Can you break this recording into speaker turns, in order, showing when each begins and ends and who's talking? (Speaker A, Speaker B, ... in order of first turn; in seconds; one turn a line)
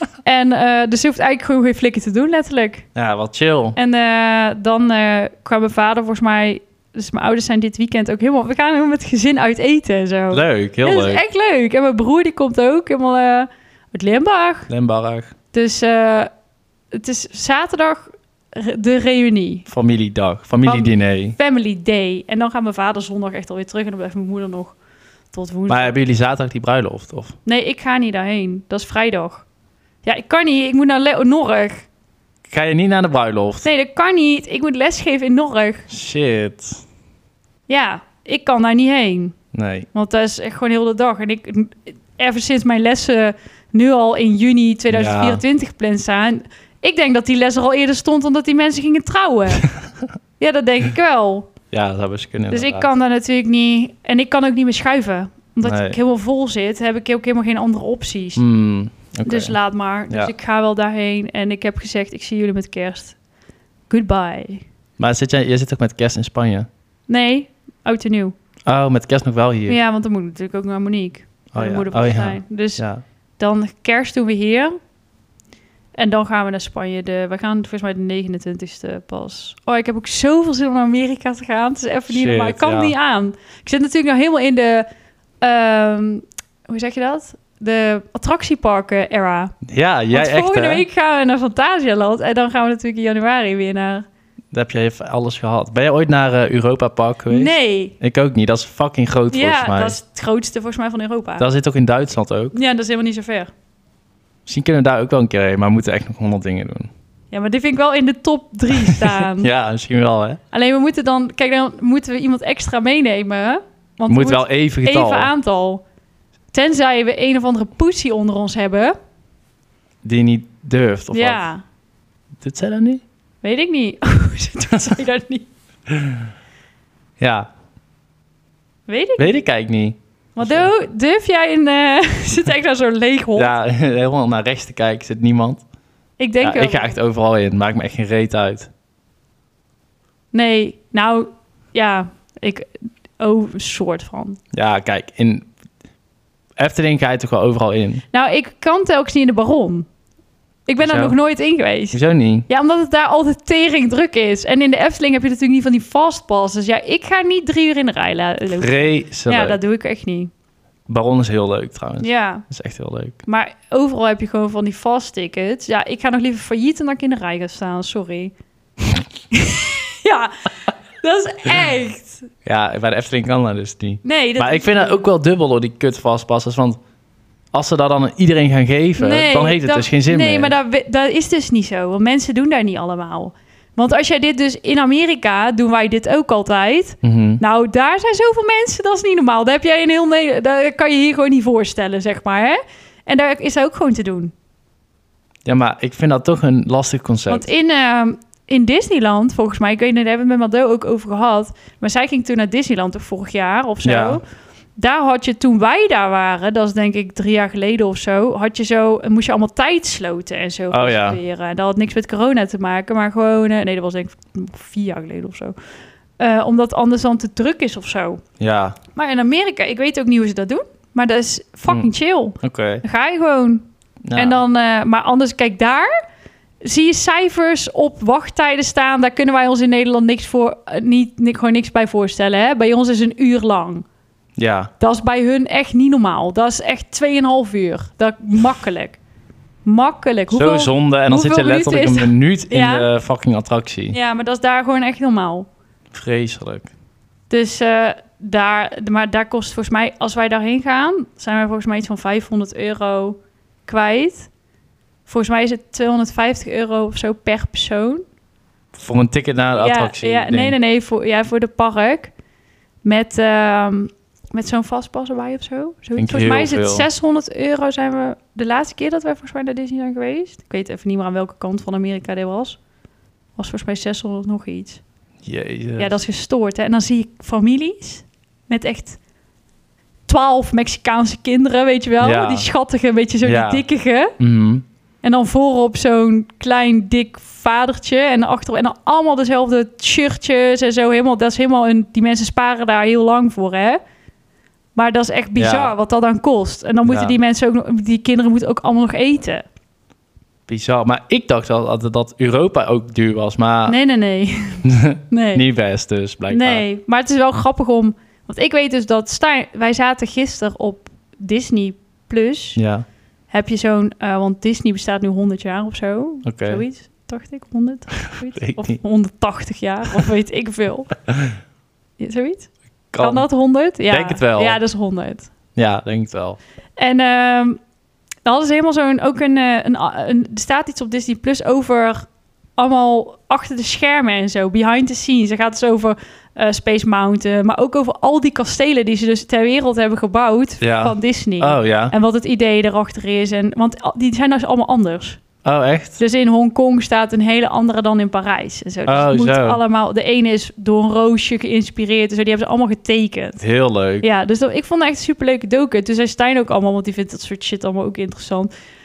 Speaker A: 0.2-2.8
Speaker B: 2.9-3.8
Speaker A: 3.8-14.7
Speaker B: 10.3-11.2
Speaker B: 14.7-15.3
Speaker A: 15.5-16.3
Speaker A: 16.9-19.6
Speaker B: 19.7-21.4
Speaker A: 20.6-24.7
Speaker A: 25.3-25.9
Speaker B: 25.7-27.3
Speaker A: 27.4-29.4
Speaker A: 30.0-31.9
Speaker B: 32.5-33.7
Speaker A: 33.6-35.9
Speaker B: 35.9-36.8
Speaker A: 37.7-39.4
Speaker B: 39.5-39.9
Speaker A: 39.9-49.7
Speaker B: 44.9-45.4
Speaker A: 50.4-51.5
Speaker B: 51.7-52.9
Speaker A: 52.5-58.4
Speaker B: 55.6-56.0
Speaker B: 58.4-59.5
Speaker A: 59.2-63.2
Speaker A: 63.9-64.6
Speaker B: 65.0-66.7
Speaker A: 67.1-68.3
Speaker B: 68.7-69.8
Speaker A: 69.7-72.8
Speaker B: 71.5-73.0
Speaker A: 73.4-74.8
Speaker A: 76.0-84.9
Speaker B: 82.1-82.9
Speaker A: 85.4-89.5
Speaker B: 89.7-90.8
Speaker A: 90.1-94.0
Speaker B: 94.5-100.0
Speaker A: 97.3-97.9
Speaker A: 99.3-101.5
Speaker B: 101.4-102.5
Speaker A: 102.5-103.5
Speaker B: 104.5-106.9
Speaker A: 107.3-109.5
Speaker B: 109.0-110.4
Speaker A: 110.5-115.8
Speaker B: 114.1-115.3
Speaker A: 116.5-118.9
Speaker B: 120.0-121.4
Speaker A: 121.1-121.6
Speaker B: 122.4-123.0
Speaker A: 123.4-125.5
Speaker B: 127.2-127.5
Speaker A: 128.9-129.4
Speaker B: 129.2-130.7
Speaker A: 130.3-133.5
Speaker B: 133.3-135.6
Speaker A: 136.2-136.9
Speaker B: 136.4-138.7
Speaker A: 140.3-144.4
Speaker B: 144.5-145.5
Speaker B: 146.6-148.0
Speaker A: 148.1-149.9
Speaker A: 150.7-160.3
Speaker B: 150.8-151.2
Speaker B: 151.9-152.5
Speaker B: 158.6-159.6
Speaker B: 160.9-163.2
Speaker A: 162.0-162.4
Speaker A: 163.2-168.3
Speaker A: 169.3-170.5
Speaker A: 171.0-172.3
Speaker B: 172.4-176.8
Speaker A: 174.0-175.0
Speaker B: 177.5-180.5
Speaker A: 179.0-194.3
Speaker B: 187.0-187.4
Speaker B: 195.4-197.5
Speaker A: 197.3-204.2
Speaker B: 203.8-204.2
Speaker A: 204.8-215.5
Speaker B: 210.7-211.2
Speaker A: 216.2-218.2
Speaker B: 218.4-218.8
Speaker A: 218.9-225.9
Speaker B: 222.4-222.8
Speaker B: 224.1-224.4
Speaker A: 226.6-233.8
Speaker B: 234.4-234.7
Speaker A: 234.8-239.0
Speaker A: 239.6-242.8
Speaker B: 240.3-244.0
Speaker A: 243.9-245.5
Speaker B: 245.9-246.7
Speaker A: 247.3-254.3
Speaker A: 255.1-258.0
Speaker B: 258.7-260.6
Speaker A: 259.6-262.1
Speaker A: 262.8-272.6
Speaker B: 266.0-266.9
Speaker A: 273.4-274.8
Speaker B: 275.2-275.9
Speaker A: 275.8-279.0
Speaker A: 280.1-284.1
Speaker B: 282.0-282.5
Speaker B: 283.2-283.6
Speaker B: 284.2-284.6
Speaker A: 285.0-293.8
Speaker A: 294.7-299.4
Speaker B: 295.4-295.7
Speaker B: 296.8-297.1
Speaker B: 300.5-303.8
Speaker A: 303.7-305.4
Speaker B: 304.6-306.6
Speaker A: 306.3-312.6
Speaker B: 312.6-312.8
Speaker A: 313.3-320.9
Speaker B: 316.2-316.6
Speaker B: 318.3-318.8
Speaker A: 322.0-325.3
Speaker B: 322.9-323.2
Speaker B: 323.9-324.6
Speaker B: 325.5-326.4
Speaker A: 326.8-327.6
Speaker A: 328.2-332.1
Speaker A: 332.6-345.2
Speaker B: 340.6-341.9
Speaker B: 345.4-346.0
Speaker A: 346.0-353.4
Speaker B: 348.9-349.6
Speaker B: 353.4-354.1
Speaker A: 354.0-358.5